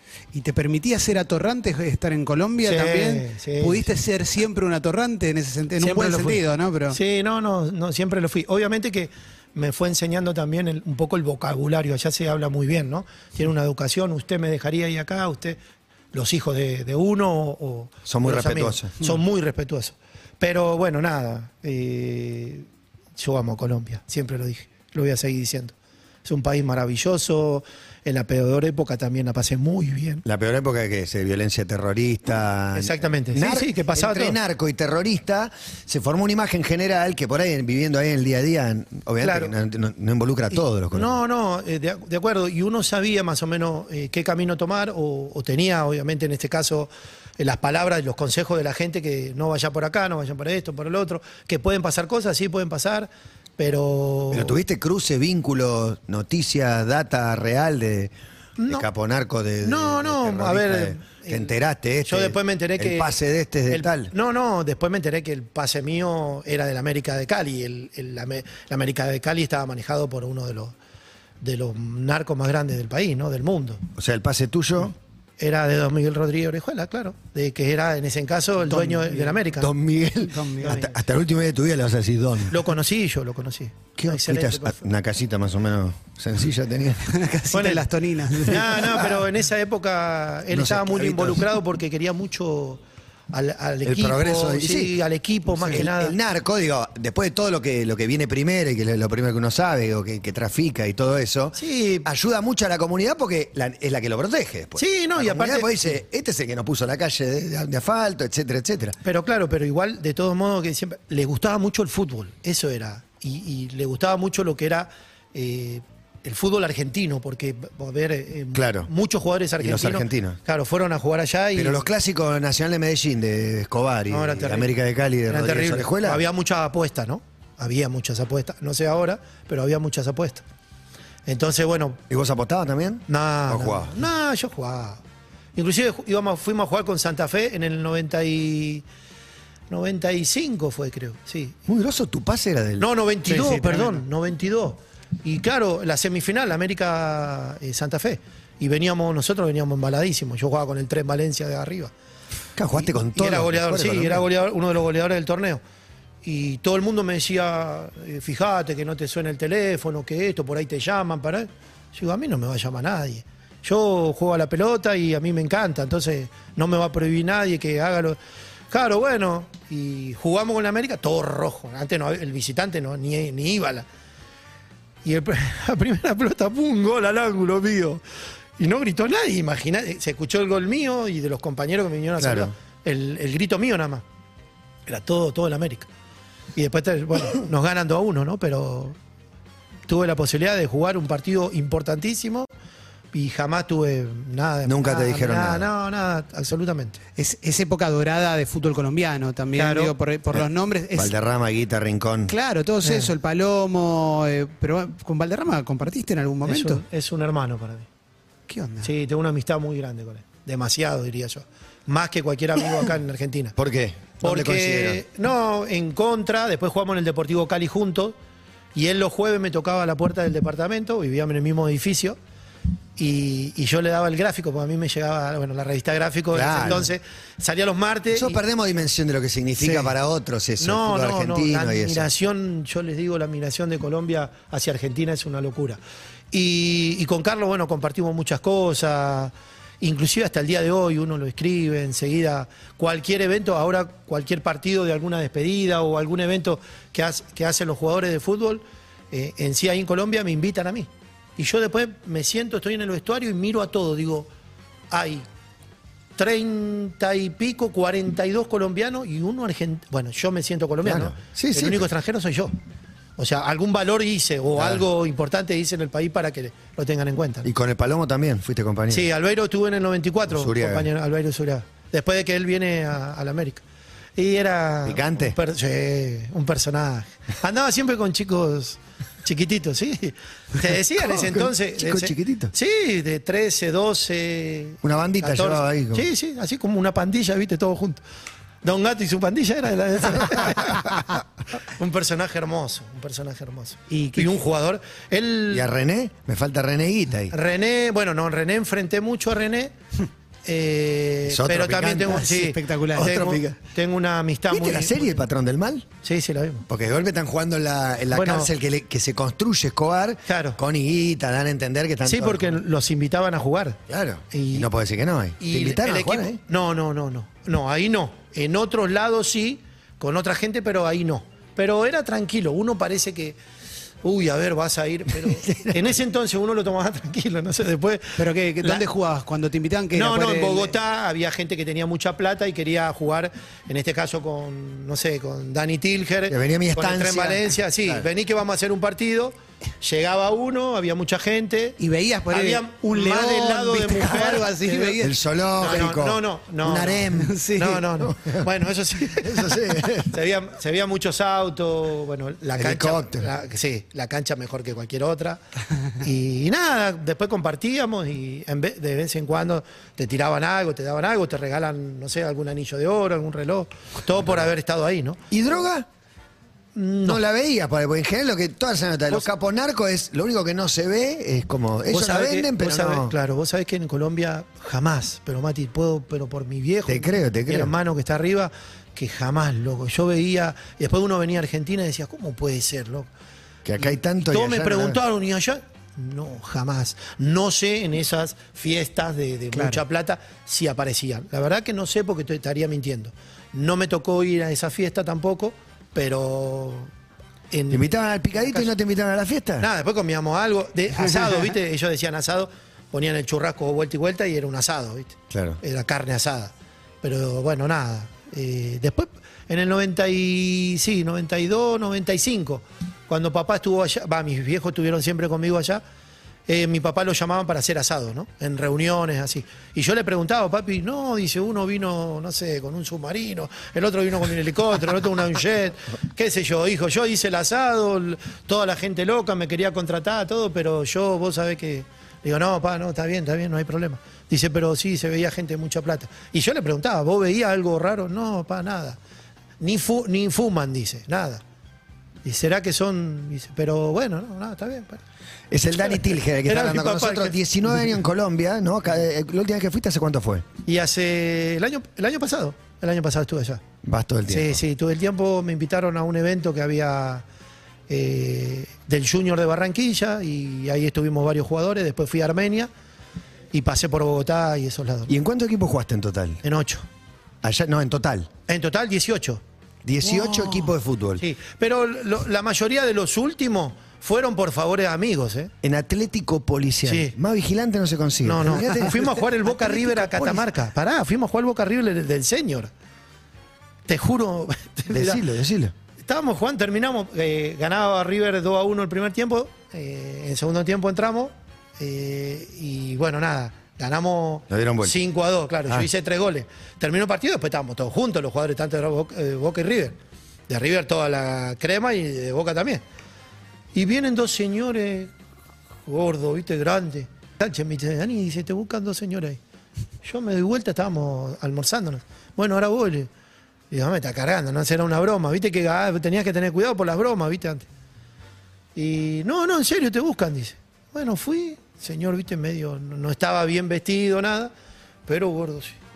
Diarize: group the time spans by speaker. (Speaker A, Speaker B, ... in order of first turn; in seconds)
Speaker A: 0.3-7.0, 78.7-79.4, 80.3-80.8, 87.1-89.1, 143.3-144.0, 197.2-201.1, 202.3-206.8, 208.5-208.9, 293.9-294.3, 302.1-303.3, 328.2-330.7, 341.8-345.2, 347.1-347.8, 389.5-389.8
Speaker B: 2.6-3.9, 5.8-15.6, 16.1-25.7, 26.2-30.2, 32.7-34.4, 39.2-39.5, 40.9-54.6, 58.6-58.9, 59.6-61.5, 62.0-63.2, 63.7-70.8, 71.4-73.8, 75.4-79.7, 80.6-81.0, 82.5-84.8, 87.5-96.2, 101.6-102.1, 104.8-106.0, 109.0-121.8, 124.1-124.7, 125.3-130.4, 131.3-132.0, 133.1-135.0, 135.6-138.8, 139.7-141.6, 142.8-151.9, 152.8-155.6, 156.2-168.2, 168.7-173.9, 175.0-178.0, 178.6-184.0, 184.9-185.9, 186.6-189.0, 189.9-192.5, 193.1-197.0, 199.6-199.9, 202.8-203.1, 206.4-207.9, 208.8-213.6, 214.2-218.2, 218.8-222.2, 223.0-228.4, 229.6-229.9, 230.6-235.8, 236.3-254.3, 254.9-255.2, 256.2-262.5, 263.2-267.5, 268.9-273.6, 274.2-288.0, 288.6-295.7, 297.3-299.7, 300.4-305.2, 306.0-306.7, 308.1-308.5, 310.3-310.6, 312.1-313.8, 314.3-314.7, 315.4-323.4, 324.0-328.8, 329.9-341.8, 342.3-345.0, 345.6-355.4, 355.9-365.3, 366.8-367.2, 371.9-383.1, 384.2-396.9, 397.5-398.7, 399.6-415.8, 416.5-439.0, 439.6-441.4, 442.2-445.0, 445.9-447.4, 450.6-453.6, 454.3-457.2, 457.9-462.7, 463.5-465.1, 466.4-466.9, 468.5-469.4, 470.0-470.7, 471.2-475.5, 476.9-477.1, 478.2-482.7, 483.9-485.2, 486.0-500.0, 500.5-502.8, 503.7-505.1, 505.9-509.4, 510.0-513.1, 513.7-517.7, 518.8-524.5, 525.1-525.8
Speaker C: 18.1-18.9, 30.2-41.1, 54.3-58.1, 58.7-64.1, 74.0-74.9, 79.6-82.7, 84.0-87.2, 90.5-91.5, 93.8-95.0, 95.6-109.0, 118.5-118.9, 119.6-120.4, 121.5-126.2, 132.1-134.0, 141.7-142.9, 152.6-154.2, 182.2-182.5, 194.7-195.7, 200.3-202.3, 213.6-215.0, 226.3-226.9, 228.1-232.1, 260.8-261.9, 264.6-264.8, 267.4-269.1, 270.3-270.9, 274.9-275.4, 281.0-282.5, 284.8-286.1, 295.5-297.3, 301.3-302.3, 303.0-303.5, 304.5-305.9, 306.7-312.6, 313.9-316.4, 336.3-338.1, 345.0-348.5, 349.1-350.1, 352.6-353.3, 365.3-365.9, 367.1-373.1, 376.9-377.7, 383.6-385.0, 397.7-399.7, 405.3-405.6, 445.5-450.4, 453.8-454.6, 465.1-466.4, 467.4-468.3, 469.8-471.2, 475.6-480.5, 484.9-485.7, 494.5-495.0